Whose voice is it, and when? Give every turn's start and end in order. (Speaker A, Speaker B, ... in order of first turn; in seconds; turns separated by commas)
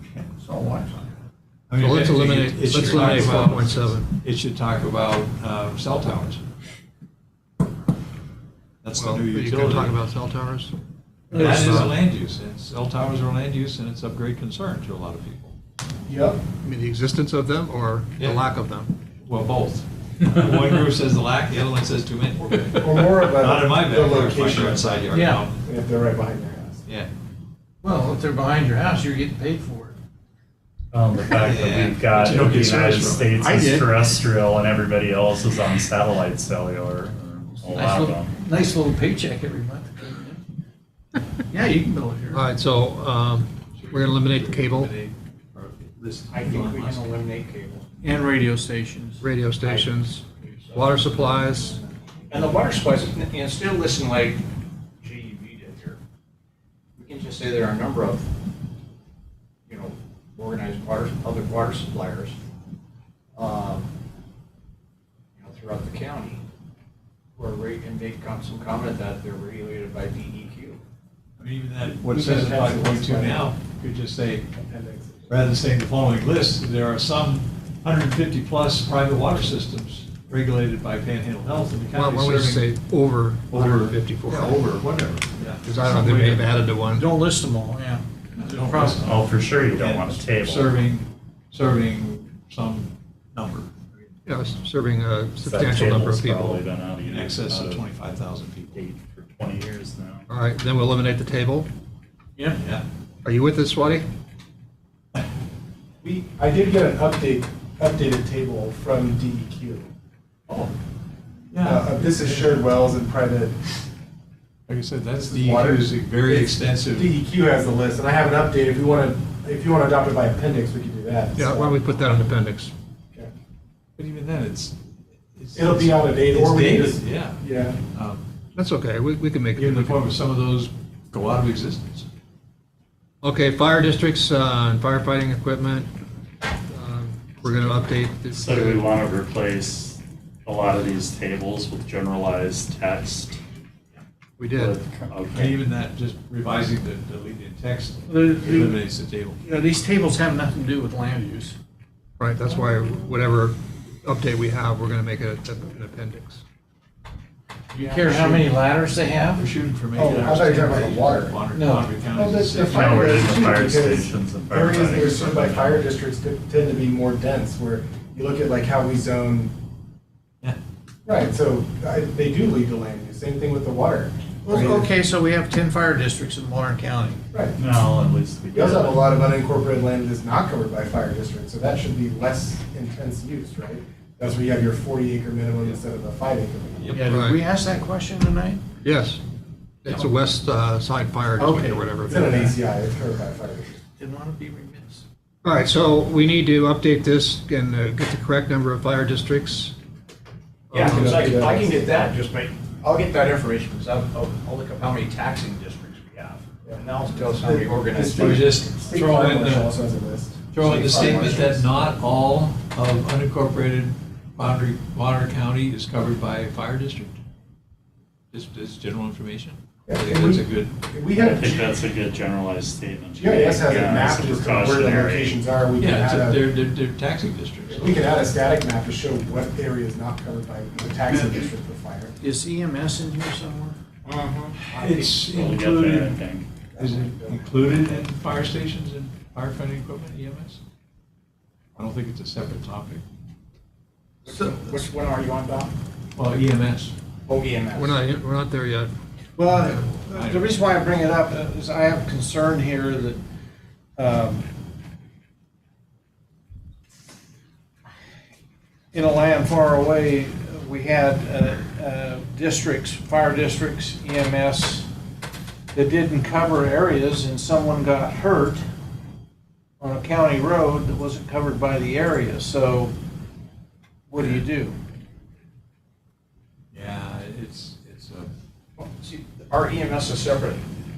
Speaker A: 0.4-1.1, Speaker B: 1.7-6.4, Speaker C: 1.8-4.1, Speaker B: 8.8-10.0, Speaker C: 8.9-10.7, Speaker C: 11.3-11.9, Speaker B: 11.4-15.5, Speaker D: 16.1-16.4, Speaker C: 16.6-19.0, Speaker B: 19.2-25.6, Speaker D: 22.6-26.8, Speaker A: 25.1-25.4, Speaker A: 27.8-30.0, Speaker E: 30.9-38.3, Speaker B: 31.3-34.2, Speaker B: 37.6-38.1, Speaker A: 37.8-40.4, Speaker A: 41.5-42.4, Speaker C: 42.3-44.9, Speaker B: 43.7-47.1, Speaker F: 46.3-47.9, Speaker A: 48.0-49.2, Speaker C: 49.2-51.8, Speaker F: 52.3-54.4, Speaker F: 55.0-56.0, Speaker F: 57.0-58.2, Speaker F: 59.7-62.4, Speaker F: 63.3-63.9, Speaker F: 65.3-66.4, Speaker F: 67.3-70.8, Speaker B: 71.4-74.5, Speaker D: 71.8-73.5, Speaker D: 74.5-75.5, Speaker B: 75.3-82.6, Speaker C: 81.9-84.6, Speaker B: 83.5-85.7, Speaker C: 85.6-87.1, Speaker A: 85.8-86.4, Speaker A: 86.9-89.1, Speaker B: 88.3-93.7, Speaker E: 89.0-90.6, Speaker C: 94.2-96.6, Speaker E: 95.5-97.8, Speaker B: 95.5-96.3, Speaker B: 96.9-98.9, Speaker E: 98.8-100.2, Speaker C: 100.3-101.7, Speaker B: 102.5-102.8, Speaker C: 103.2-104.0, Speaker D: 106.0-109.9, Speaker B: 111.5-112.6, Speaker D: 111.6-113.6, Speaker B: 114.7-117.1, Speaker D: 115.2-121.8, Speaker C: 121.3-122.7, Speaker B: 124.0-124.8, Speaker B: 125.3-128.3, Speaker D: 125.5-127.8, Speaker C: 128.5-130.1, Speaker B: 129.5-132.1, Speaker C: 133.2-135.9, Speaker C: 136.7-138.8, Speaker E: 138.4-143.3, Speaker B: 138.6-139.6, Speaker B: 141.0-141.7, Speaker C: 144.4-144.7, Speaker E: 144.6-145.4, Speaker B: 145.1-149.4, Speaker A: 148.1-148.8, Speaker A: 149.4-151.6, Speaker C: 152.2-156.4, Speaker A: 157.7-159.4, Speaker B: 158.1-158.3, Speaker B: 159.3-165.7, Speaker D: 159.9-161.4, Speaker A: 161.5-161.9, Speaker D: 162.1-169.5, Speaker E: 163.1-165.5, Speaker D: 171.1-174.9, Speaker A: 174.4-177.2, Speaker D: 177.3-177.6, Speaker E: 177.6-178.5, Speaker B: 177.7-178.9, Speaker D: 178.5-187.0, Speaker A: 186.9-188.6, Speaker C: 187.1-187.4, Speaker C: 188.8-189.2, Speaker C: 189.8-192.6, Speaker D: 191.4-193.8, Speaker A: 194.0-195.0, Speaker C: 195.4-199.7, Speaker C: 200.7-201.3, Speaker F: 200.7-208.6, Speaker D: 200.7-202.0, Speaker D: 206.6-211.7, Speaker B: 208.3-209.7, Speaker B: 210.5-217.2, Speaker F: 210.6-211.6, Speaker B: 218.3-222.2, Speaker D: 219.8-221.7, Speaker E: 221.8-225.2, Speaker B: 223.0-228.0, Speaker D: 223.2-226.5, Speaker D: 227.7-232.1, Speaker A: 232.2-233.8, Speaker F: 234.1-235.3, Speaker B: 234.6-236.2, Speaker E: 235.6-236.5, Speaker D: 236.7-238.0, Speaker B: 236.8-240.6, Speaker B: 241.8-243.0, Speaker F: 244.2-245.7, Speaker B: 246.2-246.9, Speaker F: 247.2-248.1, Speaker C: 247.7-248.9, Speaker A: 249.4-253.2, Speaker B: 250.1-250.5, Speaker A: 254.0-254.5, Speaker A: 258.9-264.9, Speaker A: 265.7-268.6, Speaker A: 269.8-272.9, Speaker A: 274.1-274.8, Speaker B: 276.7-278.3, Speaker F: 278.8-280.6